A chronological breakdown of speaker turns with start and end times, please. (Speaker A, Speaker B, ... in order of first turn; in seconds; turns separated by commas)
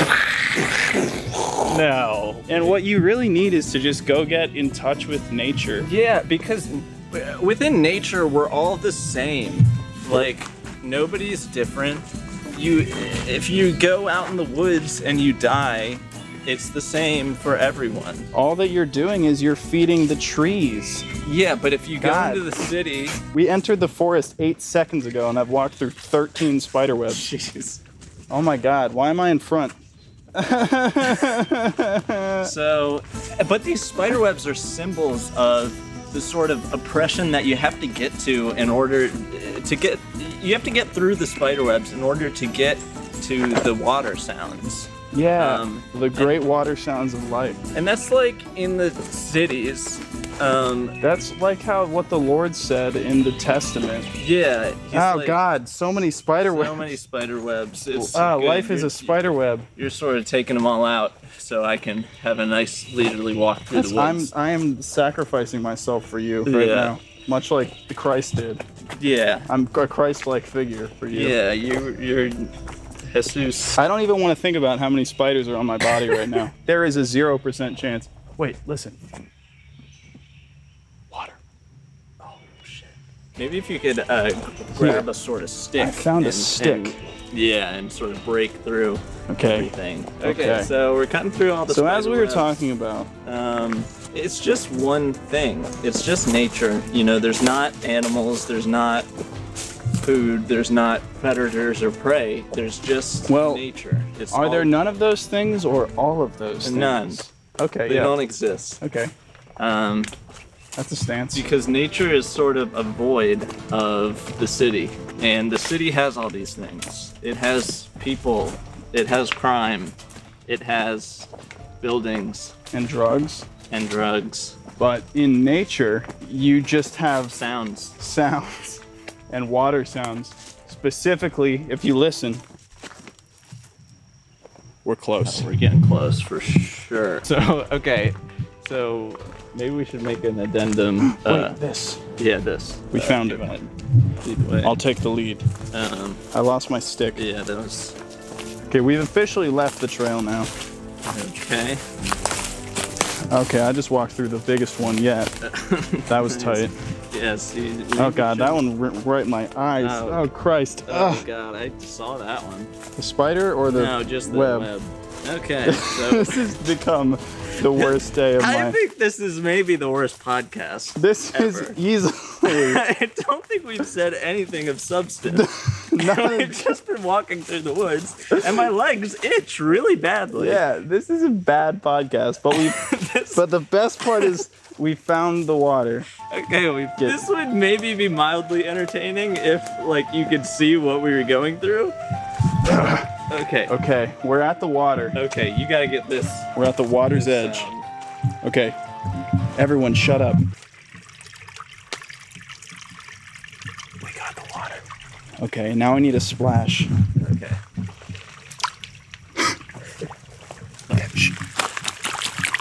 Speaker A: 1.6-2.7, Speaker B: 2.5-5.9, Speaker A: 5.8-18.3, Speaker B: 18.3-21.1, Speaker A: 21.2-23.2, Speaker B: 22.0-22.5, Speaker B: 23.3-27.3, Speaker A: 27.1-27.8, Speaker B: 28.3-29.8, Speaker B: 30.3-32.5, Speaker A: 32.4-46.4, Speaker B: 45.1-47.6, Speaker A: 47.7-51.0, Speaker B: 51.0-54.1, Speaker A: 54.2-55.4, Speaker B: 54.9-57.0, Speaker A: 56.5-64.3, Speaker B: 57.9-59.7, Speaker B: 63.7-68.6, Speaker A: 66.4-67.0, Speaker A: 69.0-69.5, Speaker B: 69.5-71.4, Speaker A: 71.1-72.5, Speaker A: 73.0-73.8, Speaker B: 73.8-79.0, Speaker B: 81.1-81.4, Speaker A: 82.2-92.6, Speaker B: 84.8-85.1, Speaker B: 85.8-87.0, Speaker B: 89.3-90.7, Speaker B: 91.7-93.1, Speaker A: 93.2-99.1, Speaker A: 100.0-104.7, Speaker B: 103.3-103.6, Speaker B: 104.3-108.2, Speaker A: 106.6-107.2, Speaker A: 107.8-108.8, Speaker B: 108.8-109.1, Speaker A: 109.6-110.1, Speaker B: 110.8-111.5, Speaker A: 111.3-120.0, Speaker A: 120.5-121.3, Speaker A: 121.8-122.5, Speaker B: 122.7-123.5, Speaker A: 123.7-124.6, Speaker B: 124.8-127.4, Speaker A: 127.3-128.0, Speaker B: 128.0-132.4, Speaker B: 134.8-135.5, Speaker A: 135.2-141.6, Speaker B: 141.0-142.0, Speaker A: 142.2-143.7, Speaker B: 142.9-143.7, Speaker A: 144.2-144.8, Speaker B: 144.6-145.5, Speaker A: 145.7-146.2, Speaker B: 146.3-147.2, Speaker A: 147.1-147.9, Speaker B: 148.7-150.5, Speaker A: 151.0-151.8, Speaker B: 153.3-155.3, Speaker A: 155.4-158.6, Speaker B: 156.1-156.7, Speaker B: 158.0-161.2, Speaker A: 159.8-160.3, Speaker A: 160.8-162.7, Speaker B: 162.9-164.7, Speaker A: 163.7-166.5, Speaker B: 165.6-168.8, Speaker A: 167.6-171.8, Speaker B: 170.9-172.8, Speaker A: 172.4-180.6, Speaker B: 175.3-176.7, Speaker B: 180.3-186.1, Speaker A: 182.5-183.5, Speaker A: 186.3-191.9, Speaker B: 187.0-187.2, Speaker B: 192.6-193.1, Speaker A: 193.3-193.7, Speaker B: 193.7-195.2, Speaker A: 195.1-196.5, Speaker B: 196.5-197.7, Speaker A: 197.1-197.9, Speaker B: 198.4-198.8, Speaker B: 199.6-200.4, Speaker B: 204.0-204.8, Speaker B: 205.4-206.9, Speaker A: 207.1-207.6, Speaker B: 210.9-211.4